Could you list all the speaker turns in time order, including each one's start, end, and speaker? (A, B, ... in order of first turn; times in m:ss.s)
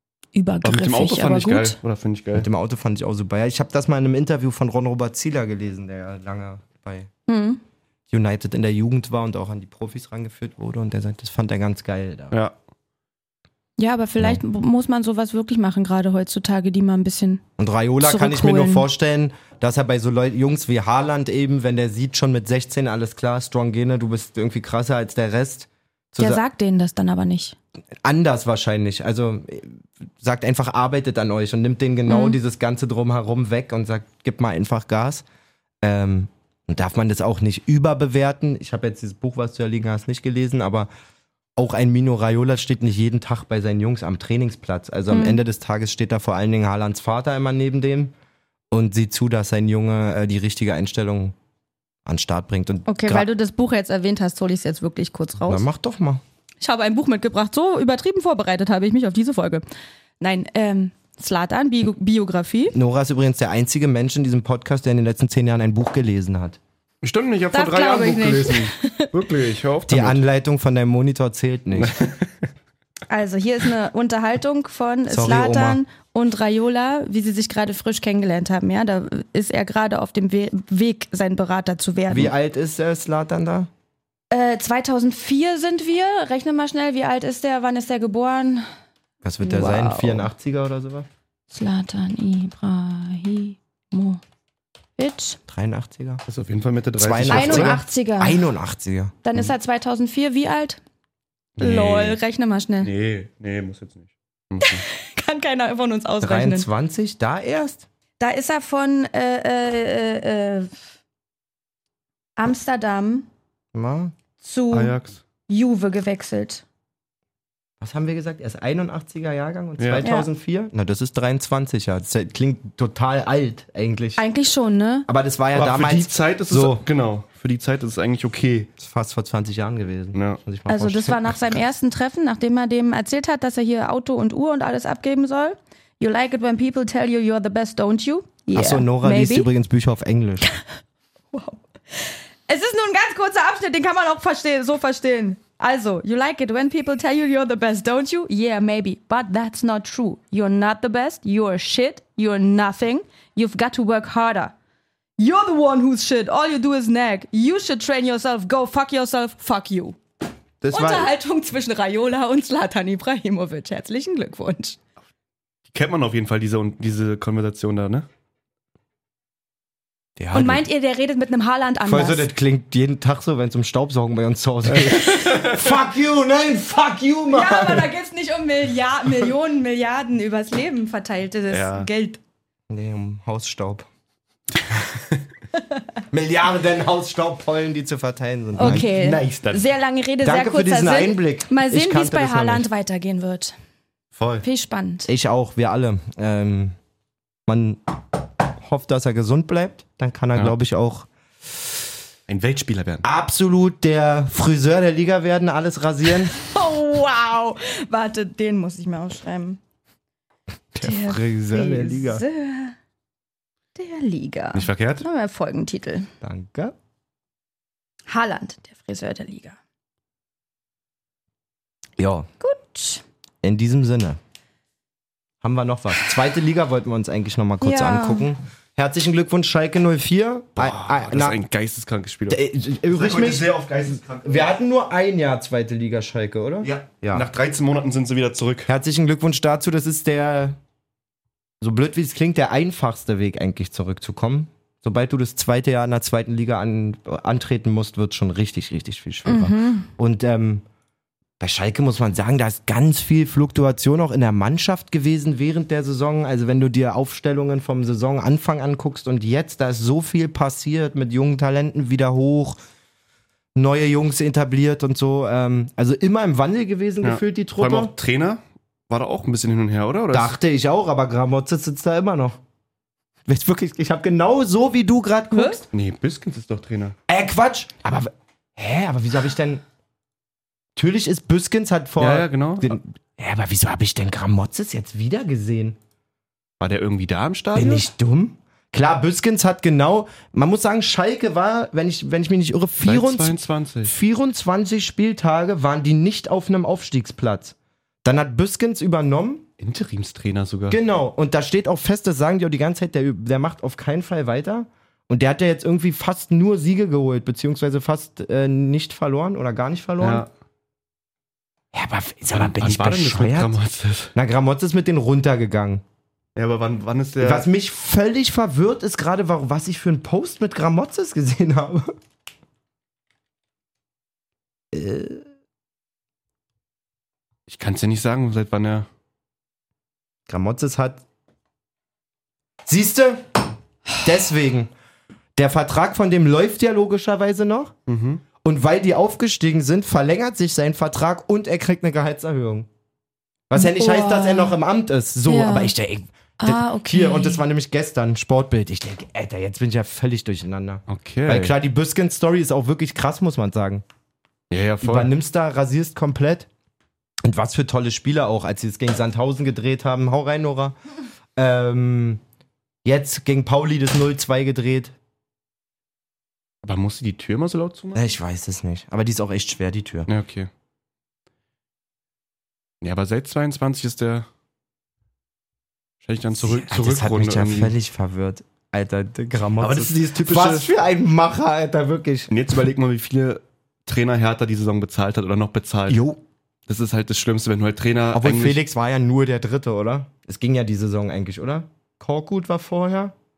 0:00.3-0:01.8 A
0:00.6-0:02.5 B
0:02.3-0:07.1 C
0:07.3-0:07.6 A
0:08.1-0:12.4 C
0:13.8-0:17.4 A
0:17.6-0:26.4 C
0:18.0-0:18.9 A
0:26.2-0:27.6 A
0:28.0-0:35.2 C
0:32.1-0:32.4 A
0:35.8-0:40.9 C
0:41.6-0:48.1 C
0:45.1-0:45.4 A
0:48.7-0:51.4 C
0:52.1-0:53.3 C
0:52.9-0:55.7 A
0:55.4-0:56.2 C
0:56.6-0:59.6 A
1:00.2-1:02.8 A
1:02.7-1:06.6 C
1:07.0-1:10.2 B
1:07.5-1:09.1 A
1:09.9-1:12.0 C
1:11.8-1:12.3 B
1:13.1-1:22.3 A
1:15.1-1:15.8 C
1:22.1-1:23.7 C
1:24.3-1:28.7 A
1:29.2-1:31.1 C
1:29.4-1:30.3 A
1:31.5-1:34.2 A
1:35.0-1:35.4 A
1:35.5-1:36.2 C
1:36.3-1:37.8 B
1:37.0-1:39.2 C
1:37.3-1:38.4 A
1:39.2-1:40.8 A
1:41.6-1:42.2 B
1:41.6-1:42.9 A
1:42.8-1:44.8 B
1:44.6-1:46.7 A
1:46.2-1:47.9 C
1:48.2-1:50.8 A
1:52.4-1:53.3 A
1:53.7-1:54.2 C
1:54.4-1:54.9 A
1:54.7-1:55.2 B
1:55.5-1:56.6 A
1:57.8-2:04.2 C
1:59.8-2:00.1 B
2:00.0-2:00.3 A
2:04.2-2:05.1 A
2:05.1-2:06.8 C
2:05.5-2:08.7 B
2:08.8-2:11.6 C
2:10.1-2:10.4 B
2:10.7-2:19.5 A
2:18.5-2:20.5 C
2:21.3-2:34.6 A
2:35.2-2:40.0 A
2:40.6-2:41.1 C
2:40.7-2:44.8 A
2:45.7-2:48.1 B
2:50.2-2:50.6 C
2:50.3-2:52.3 A
2:51.8-2:57.9 C
2:54.8-2:55.5 B
2:57.3-3:02.2 A
3:01.5-3:01.9 B
3:02.7-3:03.9 C
3:06.1-3:08.9 C
3:08.6-3:13.5 A
3:08.6-3:09.6 B
3:10.2-3:12.7 C
3:14.2-3:14.4 B
3:14.4-3:15.1 A
3:15.1-3:16.8 C
3:17.5-3:21.6 C
3:22.3-3:23.0 B
3:23.0-3:26.3 C
3:26.3-3:29.6 A
3:30.8-3:32.2 C
3:30.8-3:32.8 A
3:33.8-3:36.1 A
3:34.5-3:35.0 B
3:36.2-3:36.7 C
3:38.1-3:39.6 A
3:42.0-3:42.3 C
3:42.4-3:43.0 A
3:43.4-3:44.2 C
3:45.4-3:51.4 C
3:47.6-3:48.3 A
3:50.6-3:54.5 B
3:52.3-3:53.5 C
3:54.1-3:57.3 C
3:56.6-3:58.7 B
3:58.7-4:00.6 C
4:01.6-4:10.6 C
4:09.3-4:09.9 A
4:11.4-4:22.6 C
4:23.6-4:27.9 C
4:27.0-4:30.4 B
4:30.1-4:32.4 C
4:33.3-4:35.7 C
4:35.3-4:35.6 A
4:35.7-4:37.0 B
4:37.1-4:39.6 C
4:40.8-4:45.8 C
4:42.0-4:42.8 B
4:46.6-4:47.9 B
4:47.6-4:59.4 C
4:52.8-4:53.9 B
4:59.6-5:00.8 B
5:00.7-5:10.3 C
5:10.0-5:10.3 B
5:11.7-5:13.6 C
5:12.3-5:14.1 B
5:14.2-5:15.8 C
5:16.4-5:17.5 B
5:17.2-5:21.9 C
5:24.7-5:25.3 C
5:27.5-5:28.9 B
5:30.3-5:31.0 C
5:32.7-5:33.3 C
5:34.0-5:34.7 C
5:35.4-5:37.7 C
5:37.9-5:38.2 B
5:38.4-5:42.7 C
5:43.5-5:53.8 C
5:43.6-5:44.6 A
5:45.3-5:45.7 A
5:46.4-5:47.4 A
5:50.9-5:51.5 B
5:54.5-5:55.1 B
5:54.8-5:56.5 C
5:57.2-6:00.8 C
6:01.4-6:02.2 C
6:02.8-6:05.0 C
6:06.6-6:08.1 B
6:08.0-6:10.1 C
6:10.1-6:10.5 B
6:12.8-6:14.3 B
6:16.0-6:17.7 B
6:16.4-6:22.3 C
6:19.6-6:20.7 B
6:22.3-6:26.0 B
6:25.9-6:26.2 C
6:26.7-6:28.6 B
6:28.1-6:33.1 C